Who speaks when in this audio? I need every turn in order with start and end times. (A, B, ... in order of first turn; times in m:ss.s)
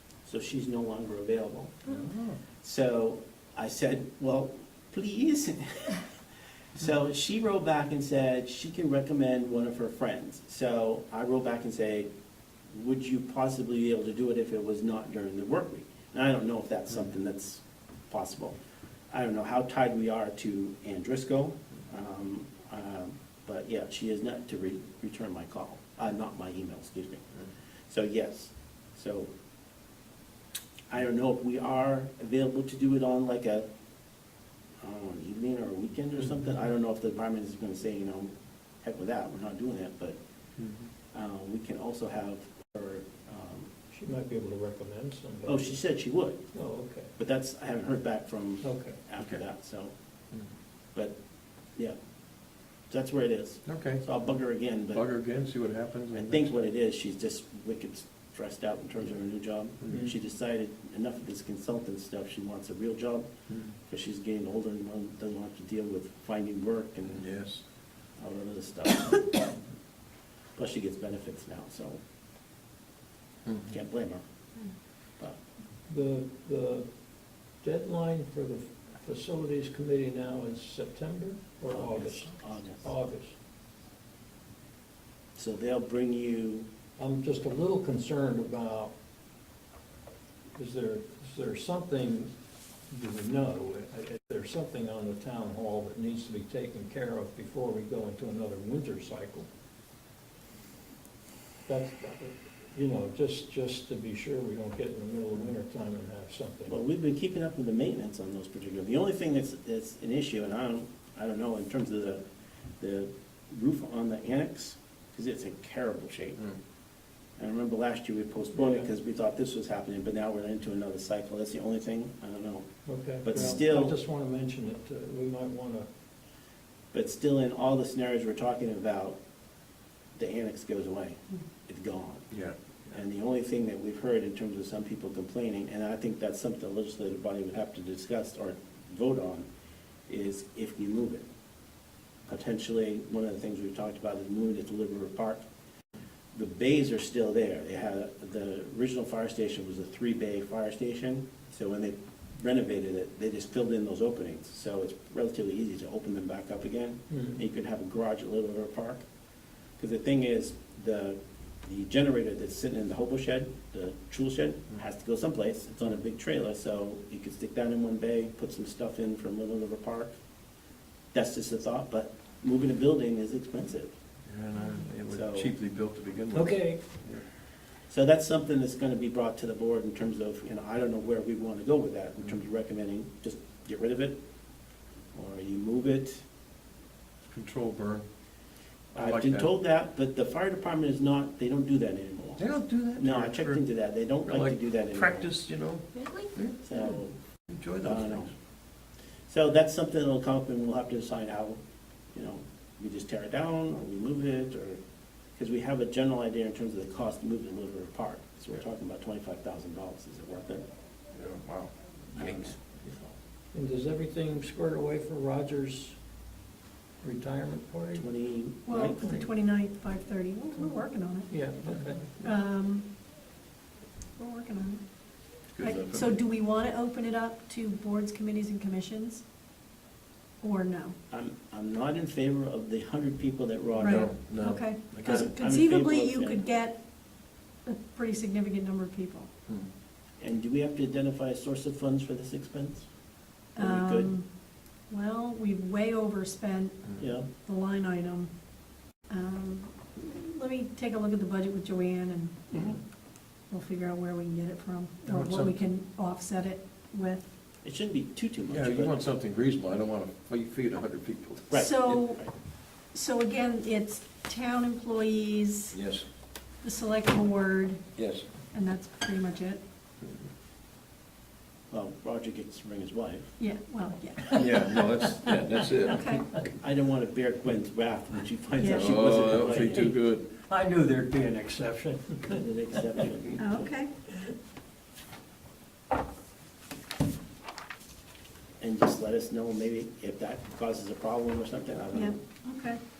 0:00.2-0:02.0 A
0:01.9-0:02.4 B
0:02.6-0:06.0 A
0:06.7-0:12.1 A
0:12.7-0:18.6 A
0:19.1-0:27.3 A
0:27.9-0:29.3 A
0:30.9-0:33.6 A
0:34.8-0:40.2 A
0:40.6-0:40.9 B
0:41.1-0:43.7 A
0:43.9-0:45.7 C
0:45.4-0:46.4 A
0:46.5-0:47.1 C
0:47.2-0:49.9 A
0:48.6-0:49.0 C
0:52.9-0:55.0 A
0:53.7-0:54.0 B
0:54.9-0:56.7 B
0:56.1-1:07.2 A
0:59.9-1:00.1 C
1:07.1-1:07.6 B
1:08.2-1:09.5 A
1:10.6-1:12.0 A
1:13.7-1:14.2 A
1:15.9-1:16.9 C
1:17.6-1:23.3 C
1:21.7-1:22.9 A
1:25.4-1:26.6 A
1:27.0-1:28.9 C
1:30.5-1:32.3 C
1:32.9-1:39.5 C
1:41.7-1:46.8 C
1:46.7-1:52.2 A
1:52.8-1:56.5 A
1:57.4-2:02.7 A
1:58.6-1:58.8 C
2:02.8-2:05.9 C
2:03.2-2:04.0 A
2:06.9-2:09.2 A
2:10.1-2:12.3 A
2:12.9-2:19.5 A
2:20.1-2:21.2 A
2:22.3-2:25.4 A
2:26.3-2:39.0 A
2:37.1-2:37.4 C
2:39.8-2:50.1 A
2:51.1-2:53.9 A
2:54.3-2:57.2 B
2:55.1-2:55.5 A
2:56.3-2:56.8 C
2:57.9-3:04.2 A
3:05.1-3:06.2 A
3:07.3-3:08.0 B
3:08.9-3:09.5 B
3:08.9-3:12.4 A
3:12.4-3:13.6 B
3:13.0-3:15.3 A
3:14.2-3:16.6 B
3:16.6-3:17.2 A
3:17.5-3:18.3 B
3:17.8-3:18.3 A
3:19.3-3:21.6 A
3:22.1-3:24.8 A
3:25.4-3:30.6 A
3:31.1-3:32.7 B
3:32.1-3:32.6 A
3:33.5-3:36.0 C
3:37.0-3:38.1 C
3:38.0-3:39.3 A
3:38.6-3:41.4 D
3:41.3-3:42.0 C
3:42.2-3:42.9 D
3:44.2-3:44.8 D
3:45.5-3:46.1 B
3:45.6-3:49.2 D
3:50.4-3:51.0 D
3:51.1-3:54.1 A
3:53.8-3:55.3 B
3:53.8-3:56.8 D
3:55.0-3:56.4 A
3:57.6-3:59.3 D
4:00.2-4:02.9 A
4:03.6-4:04.3 D
4:03.6-4:04.1 A
4:04.9-4:08.3 D
4:07.0-4:07.2 A
4:09.1-4:12.7 D
4:12.5-4:12.8 A
4:13.5-4:17.3 D
4:15.0-4:15.5 B
4:17.6-4:19.0 A
4:18.5-4:22.0 B
4:21.5-4:22.3 A
4:21.5-4:22.2 D
4:22.8-4:25.8 D
4:25.7-4:26.0 B
4:26.6-4:27.8 D
4:28.0-4:28.2 B
4:28.5-4:29.6 D
4:31.7-4:33.3 A
4:33.4-4:34.6 D
4:34.3-4:36.2 B
4:35.8-4:36.2 D
4:36.6-4:39.9 A
4:38.6-4:39.2 D
4:38.6-4:40.3 B
4:39.6-4:39.8 C
4:40.4-4:42.4 C
4:42.3-4:43.6 A
4:43.4-4:43.9 D
4:48.6-4:52.2 A
4:51.9-4:52.8 D